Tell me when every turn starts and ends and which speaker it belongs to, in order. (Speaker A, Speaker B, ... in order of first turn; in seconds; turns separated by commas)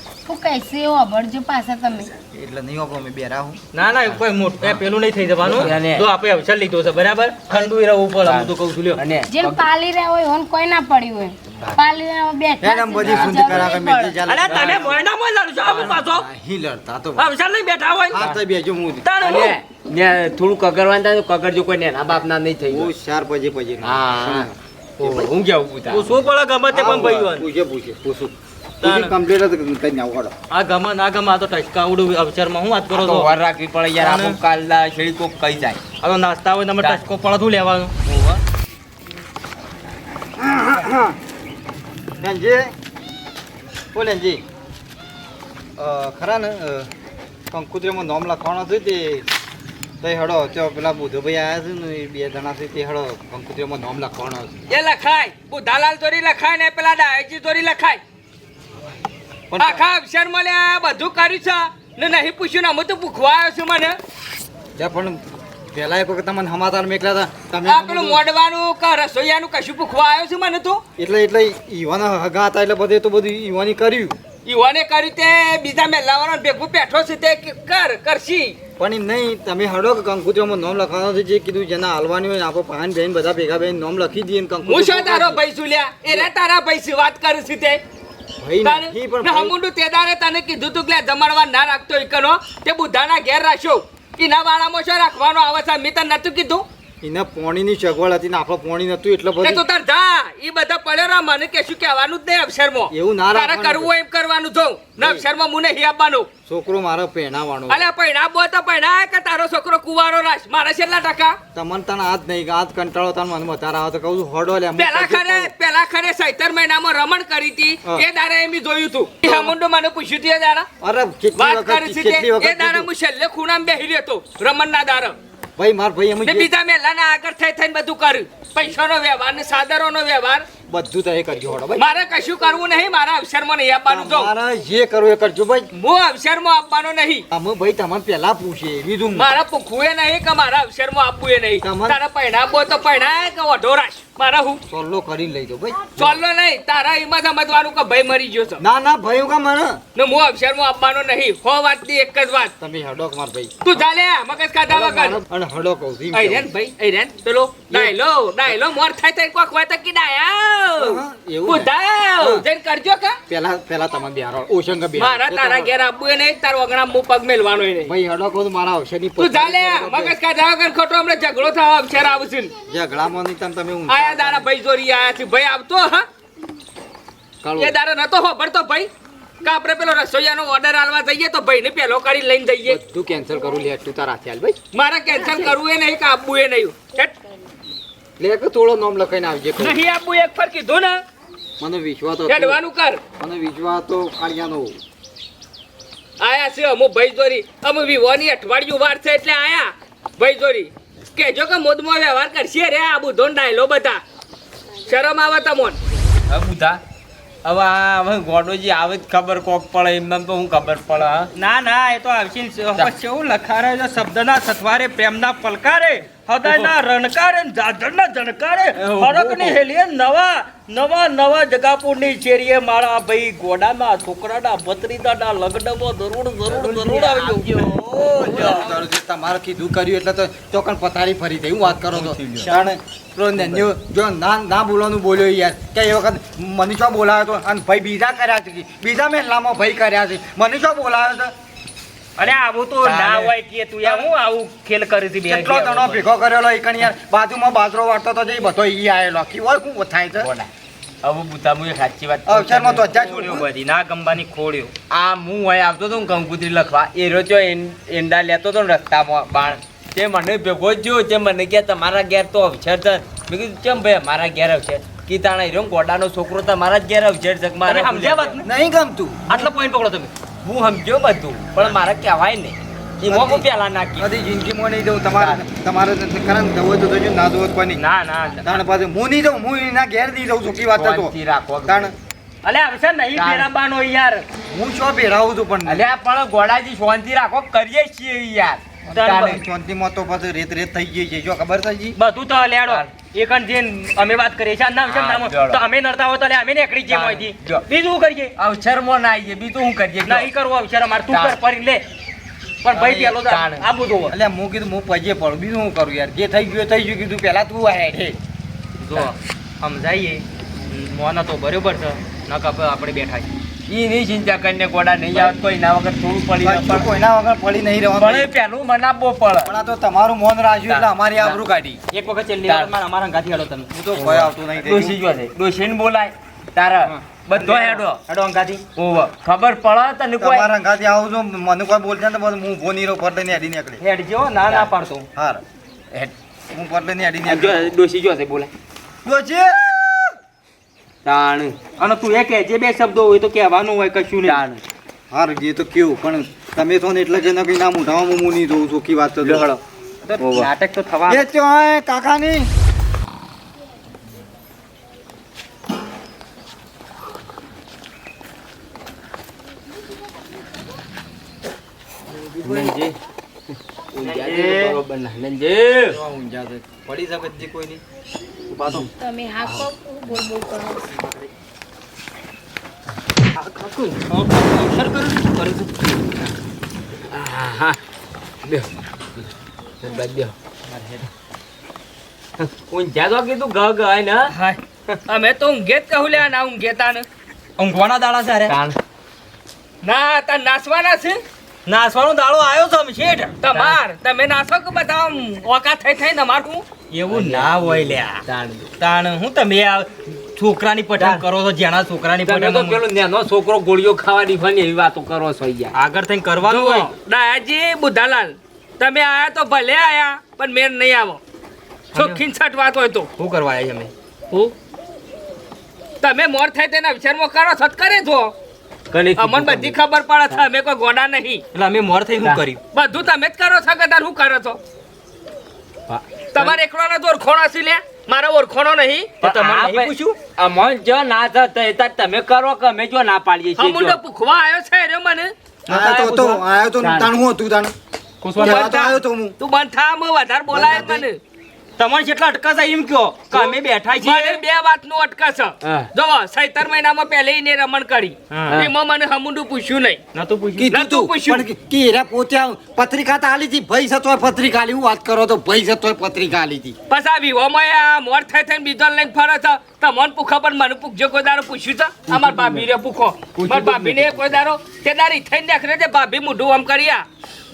Speaker A: 0.2-2.1, Speaker B: 2.2-3.6, Speaker C: 3.7-9.0, Speaker D: 4.1-4.8, Speaker D: 5.4-6.1, Speaker D: 8.2-9.7, Speaker A: 9.3-14.2, Speaker D: 11.6-11.9, Speaker B: 12.6-15.0, Speaker D: 13.0-13.8, Speaker C: 14.2-16.3, Speaker D: 14.5-14.8, Speaker D: 15.7-16.0, Speaker B: 15.8-17.3, Speaker C: 17.2-18.2, Speaker B: 18.1-19.1, Speaker C: 19.1-19.6, Speaker D: 19.2-22.9, Speaker B: 22.7-25.1, Speaker D: 23.8-26.1, Speaker C: 25.9-27.5, Speaker B: 26.7-30.4, Speaker D: 26.8-27.2, Speaker C: 28.8-29.1, Speaker C: 30.5-33.3, Speaker D: 33.0-35.8, Speaker C: 34.0-34.4, Speaker C: 36.0-38.4, Speaker D: 36.8-37.0, Speaker B: 40.4-41.2, Speaker B: 42.2-42.7, Speaker B: 43.9-44.4, Speaker B: 45.8-46.9, Speaker B: 47.5-49.3, Speaker B: 50.0-54.6, Speaker E: 54.7-58.0, Speaker B: 59.5-59.8, Speaker E: 59.6-64.0, Speaker B: 64.8-65.2, Speaker B: 65.7-68.2, Speaker E: 67.7-70.8, Speaker B: 71.0-74.2, Speaker E: 74.5-78.6, Speaker B: 78.8-85.4, Speaker E: 84.6-87.8, Speaker B: 88.4-89.5, Speaker E: 88.6-96.7, Speaker B: 97.0-99.6, Speaker E: 99.4-106.3, Speaker B: 102.9-103.9, Speaker B: 105.0-105.2, Speaker B: 106.5-107.9, Speaker E: 107.7-111.4, Speaker B: 111.5-115.5, Speaker E: 114.8-120.7, Speaker B: 119.2-119.5, Speaker B: 120.8-122.9, Speaker E: 121.4-125.2, Speaker B: 125.6-126.5, Speaker E: 126.2-130.5, Speaker B: 130.7-131.9, Speaker E: 131.8-134.3, Speaker B: 133.9-135.7, Speaker E: 135.7-137.3, Speaker B: 137.3-139.3, Speaker E: 139.2-144.6, Speaker B: 141.6-142.0, Speaker B: 144.7-146.2, Speaker E: 146.0-148.6, Speaker B: 148.6-149.8, Speaker E: 150.0-152.5, Speaker B: 152.6-153.8, Speaker E: 153.7-155.2, Speaker B: 154.7-156.5, Speaker E: 156.1-163.2, Speaker B: 160.8-162.4, Speaker B: 163.3-165.7, Speaker E: 165.0-167.9, Speaker B: 167.8-170.2, Speaker E: 169.2-172.5, Speaker B: 172.7-174.5, Speaker E: 173.9-176.1, Speaker B: 177.4-177.8, Speaker E: 177.6-178.9, Speaker E: 179.4-182.8, Speaker B: 182.7-184.6, Speaker E: 184.7-187.2, Speaker B: 185.1-185.5, Speaker B: 188.2-189.8, Speaker E: 189.6-191.0, Speaker B: 191.6-192.6, Speaker E: 192.3-193.0, Speaker B: 193.2-194.8, Speaker E: 196.2-204.0, Speaker E: 204.9-205.8, Speaker D: 206.3-206.8, Speaker D: 207.4-211.3, Speaker C: 211.3-228.7, Speaker D: 216.4-216.7, Speaker D: 218.8-219.6, Speaker D: 226.5-228.8, Speaker B: 228.2-241.3, Speaker D: 231.7-232.5, Speaker D: 233.4-233.6, Speaker C: 242.2-246.0, Speaker D: 242.8-244.1, Speaker B: 245.3-250.3, Speaker D: 250.2-250.5, Speaker D: 251.0-252.9, Speaker B: 252.3-253.5, Speaker C: 252.8-254.7, Speaker D: 254.9-268.4, Speaker C: 267.7-268.5, Speaker B: 268.4-269.5, Speaker C: 269.3-270.1, Speaker D: 270.4-274.1, Speaker B: 273.1-273.4, Speaker B: 274.0-277.8, Speaker D: 275.2-275.4, Speaker C: 277.8-278.4, Speaker B: 278.4-281.1, Speaker D: 280.7-281.9, Speaker B: 281.7-281.9, Speaker C: 282.4-284.3, Speaker D: 283.1-283.5, Speaker B: 284.5-285.8, Speaker D: 285.6-289.4, Speaker B: 288.9-292.0, Speaker C: 289.0-289.4, Speaker C: 292.0-298.3, Speaker D: 294.9-295.6, Speaker D: 296.9-297.6, Speaker D: 298.4-300.3, Speaker C: 300.1-301.8, Speaker D: 301.1-301.4, Speaker C: 302.6-304.1, Speaker D: 302.7-303.7, Speaker B: 304.1-308.2, Speaker C: 308.8-313.3, Speaker D: 313.7-316.9, Speaker B: 316.4-318.3, Speaker D: 318.0-319.6, Speaker B: 319.4-321.5, Speaker D: 320.7-321.8, Speaker C: 321.9-323.9, Speaker D: 322.4-322.7, Speaker B: 323.8-325.0, Speaker D: 324.0-328.0, Speaker C: 327.3-328.7, Speaker D: 328.8-330.5, Speaker B: 330.2-333.8, Speaker C: 333.8-335.1, Speaker B: 335.1-335.4, Speaker B: 336.5-337.7, Speaker D: 337.3-338.5, Speaker B: 339.1-340.0, Speaker D: 341.1-341.6, Speaker C: 341.8-344.4, Speaker D: 344.2-344.6, Speaker B: 345.1-349.5, Speaker C: 349.2-351.3, Speaker D: 350.2-350.5, Speaker B: 351.1-352.5, Speaker B: 362.1-362.7, Speaker D: 362.4-363.0, Speaker D: 363.5-366.0, Speaker C: 364.0-364.8, Speaker B: 365.9-367.8, Speaker C: 366.9-367.8, Speaker C: 368.5-368.9, Speaker A: 369.0-370.9, Speaker C: 373.4-375.7, Speaker D: 377.1-377.8, Speaker D: 378.4-380.4, Speaker D: 382.4-384.3, Speaker E: 385.1-387.1, Speaker C: 387.6-388.6, Speaker D: 388.5-388.8, Speaker E: 389.8-391.2, Speaker C: 391.7-393.4, Speaker E: 393.4-396.7, Speaker D: 393.5-393.8, Speaker C: 396.9-398.2, Speaker D: 397.1-398.7, Speaker C: 398.8-402.8, Speaker D: 401.0-401.2, Speaker D: 402.2-405.7, Speaker C: 405.7-406.9, Speaker E: 406.4-411.2, Speaker C: 411.9-412.2, Speaker E: 411.9-413.1, Speaker C: 413.2-413.9, Speaker E: 416.0-418.3, Speaker D: 418.9-419.8, Speaker E: 419.2-421.4, Speaker C: 421.5-422.6, Speaker E: 422.7-424.6, Speaker D: 425.9-426.6, Speaker E: 426.3-429.2, Speaker C: 429.2-430.2, Speaker D: 429.2-434.0, Speaker E: 433.6-435.3, Speaker D: 435.7-437.1, Speaker B: 435.7-437.7, Speaker C: 435.7-436.3, Speaker C: 438.2-438.7, Speaker E: 438.4-441.2, Speaker B: 438.4-439.3, Speaker B: 440.6-441.0, Speaker C: 441.8-444.4, Speaker E: 443.3-450.0, Speaker D: 445.6-445.9, Speaker C: 448.3-448.6, Speaker C: 450.1-450.7, Speaker B: 450.6-456.8, Speaker E: 450.7-451.5, Speaker E: 456.9-467.1, Speaker D: 463.5-464.2